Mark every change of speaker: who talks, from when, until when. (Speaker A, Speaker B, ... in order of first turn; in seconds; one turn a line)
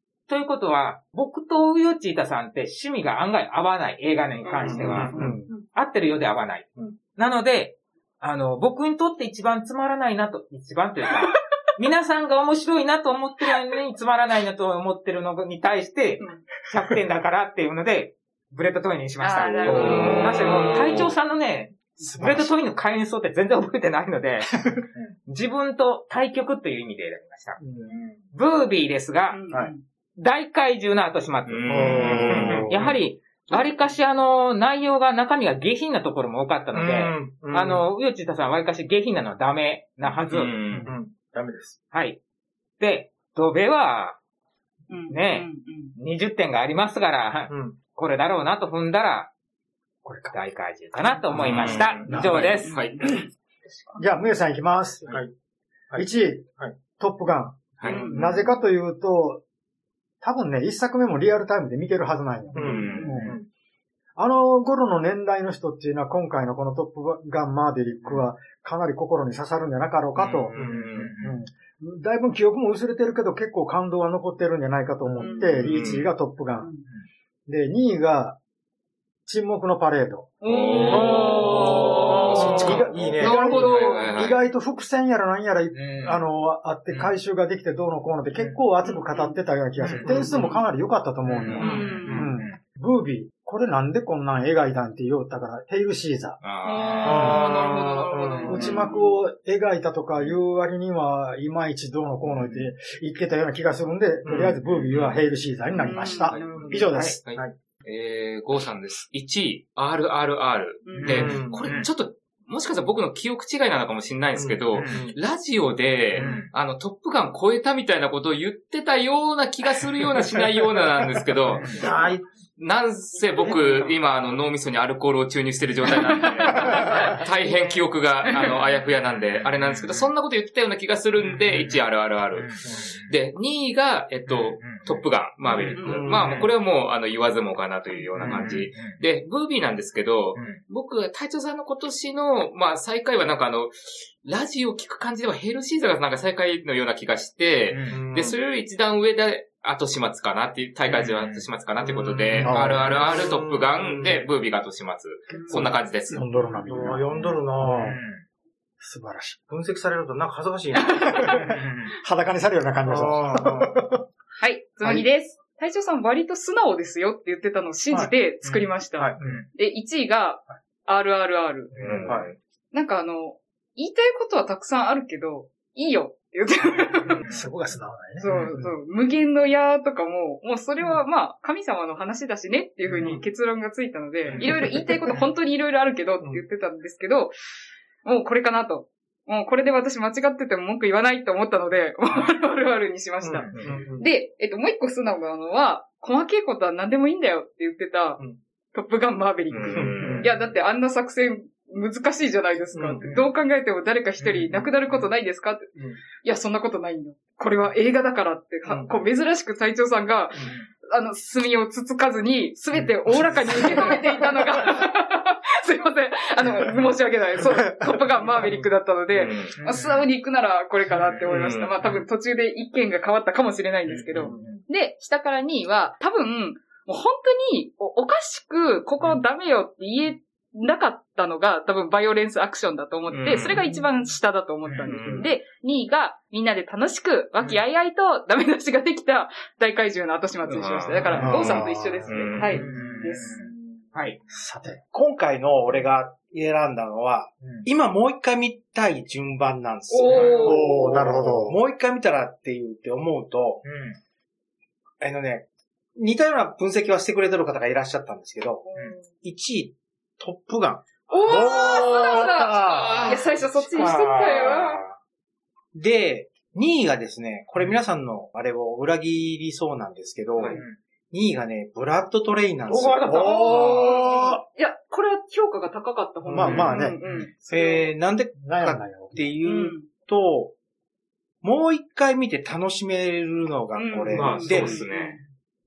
Speaker A: 0.3-24.5
Speaker B: 4.4-5.4
Speaker C: 4.6-5.4
Speaker D: 5.1-5.5
Speaker B: 16.2-16.4
Speaker B: 19.2-20.7
Speaker E: 19.7-21.1
Speaker D: 22.0-22.5
Speaker A: 25.3-27.6
Speaker C: 27.6-28.0
Speaker A: 28.3-29.4
Speaker B: 29.3-29.8
Speaker A: 30.2-40.6
Speaker E: 31.5-32.7
Speaker D: 31.7-32.9
Speaker C: 32.4-32.8
Speaker C: 36.7-37.9
Speaker E: 40.3-40.9
Speaker C: 40.9-41.8
Speaker A: 41.9-42.2
Speaker A: 42.8-44.2
Speaker B: 44.9-46.0
Speaker A: 45.1-49.3
Speaker C: 47.5-47.8
Speaker D: 50.0-50.4
Speaker A: 50.3-52.8
Speaker E: 51.3-53.0
Speaker D: 51.4-52.6
Speaker C: 51.5-51.9
Speaker B: 52.4-54.3
Speaker D: 54.0-55.2
Speaker D: 56.0-59.4
Speaker E: 57.8-58.1
Speaker B: 57.8-58.6
Speaker D: 60.2-63.4
Speaker C: 62.5-63.5
Speaker E: 62.6-63.3
Speaker D: 64.2-76.7
Speaker E: 70.2-71.1
Speaker C: 70.5-70.9
Speaker A: 70.5-71.4
Speaker B: 75.2-75.7
Speaker E: 75.6-76.1
Speaker B: 76.6-76.8
Speaker D: 77.5-78.4
Speaker D: 79.3-80.3
Speaker B: 80.4-84.1
Speaker E: 80.5-84.4
Speaker D: 80.9-96.4
Speaker C: 82.4-83.3
Speaker A: 85.7-86.3
Speaker A: 86.9-87.2
Speaker B: 88.8-90.6
Speaker C: 90.0-90.5
Speaker A: 91.3-92.6
Speaker C: 91.6-92.3
Speaker B: 91.6-92.3
Speaker E: 96.4-98.8
Speaker B: 96.6-99.2
Speaker C: 97.0-98.7
Speaker D: 97.0-97.4
Speaker D: 98.5-107.2
Speaker E: 102.2-102.7
Speaker C: 104.2-104.6
Speaker E: 104.3-105.2
Speaker B: 105.7-106.8
Speaker E: 106.3-121.8
Speaker A: 106.7-107.2
Speaker B: 110.8-111.2
Speaker C: 111.0-111.6
Speaker A: 111.0-111.9
Speaker C: 114.3-115.2
Speaker A: 114.7-115.0
Speaker A: 116.2-116.5
Speaker A: 121.5-121.8
Speaker C: 121.7-122.2
Speaker E: 122.6-156.2
Speaker B: 123.2-124.0
Speaker B: 125.9-128.8
Speaker A: 129.4-130.1
Speaker A: 131.2-133.1
Speaker A: 134.3-136.5
Speaker B: 135.8-136.4
Speaker C: 135.8-136.4
Speaker A: 138.2-139.0
Speaker A: 140.3-140.6
Speaker A: 147.7-148.0
Speaker C: 147.9-148.4
Speaker A: 150.9-151.4
Speaker C: 151.8-154.2
Speaker A: 152.3-152.6
Speaker D: 152.4-153.1
Speaker B: 155.3-155.8
Speaker D: 155.5-157.1
Speaker C: 156.7-158.0
Speaker A: 157.2-158.2
Speaker D: 157.6-158.0
Speaker D: 158.8-159.4
Speaker C: 159.5-161.3
Speaker B: 160.8-161.4
Speaker D: 161.0-164.0
Speaker A: 161.4-161.9
Speaker C: 162.9-163.9
Speaker B: 164.4-171.8
Speaker A: 169.2-169.5
Speaker E: 171.8-172.4
Speaker D: 171.8-172.2
Speaker C: 171.9-172.3
Speaker B: 172.7-177.2
Speaker D: 177.2-178.3
Speaker B: 178.2-187.3
Speaker C: 182.8-183.2
Speaker C: 184.3-185.1
Speaker B: 188.0-198.2
Speaker C: 193.2-194.1
Speaker A: 193.4-193.6
Speaker B: 198.7-243.5
Speaker E: 199.5-200.3
Speaker C: 199.7-200.3
Speaker C: 202.7-203.2
Speaker C: 204.2-205.0
Speaker C: 205.8-206.0
Speaker C: 208.7-209.0
Speaker C: 213.1-213.6
Speaker E: 219.2-219.6
Speaker A: 219.6-220.1
Speaker A: 220.9-221.2
Speaker E: 221.3-221.9
Speaker A: 224.0-224.6
Speaker E: 224.2-224.5
Speaker E: 233.1-233.6
Speaker A: 233.5-233.9
Speaker A: 234.7-234.9
Speaker E: 234.9-235.2
Speaker C: 235.0-235.3
Speaker E: 240.5-242.6
Speaker D: 241.2-241.8
Speaker A: 242.4-244.2
Speaker D: 244.3-244.8
Speaker C: 244.9-253.6
Speaker A: 247.4-247.7
Speaker B: 249.9-250.9
Speaker A: 250.1-250.6
Speaker D: 250.4-251.6
Speaker A: 253.6-254.0
Speaker C: 255.0-258.6
Speaker B: 258.6-259.2
Speaker C: 259.2-262.2
Speaker B: 261.1-264.8
Speaker D: 261.3-263.2
Speaker A: 263.6-264.9
Speaker C: 265.7-270.6
Speaker C: 271.1-273.1
Speaker A: 272.7-273.8
Speaker D: 273.1-274.4
Speaker B: 273.1-277.9
Speaker C: 276.3-276.8
Speaker D: 276.3-277.0
Speaker A: 277.0-277.3
Speaker C: 277.4-280.5
Speaker D: 278.4-279.3
Speaker B: 279.4-279.9
Speaker C: 281.4-284.8
Speaker B: 283.7-285.2
Speaker E: 284.1-285.2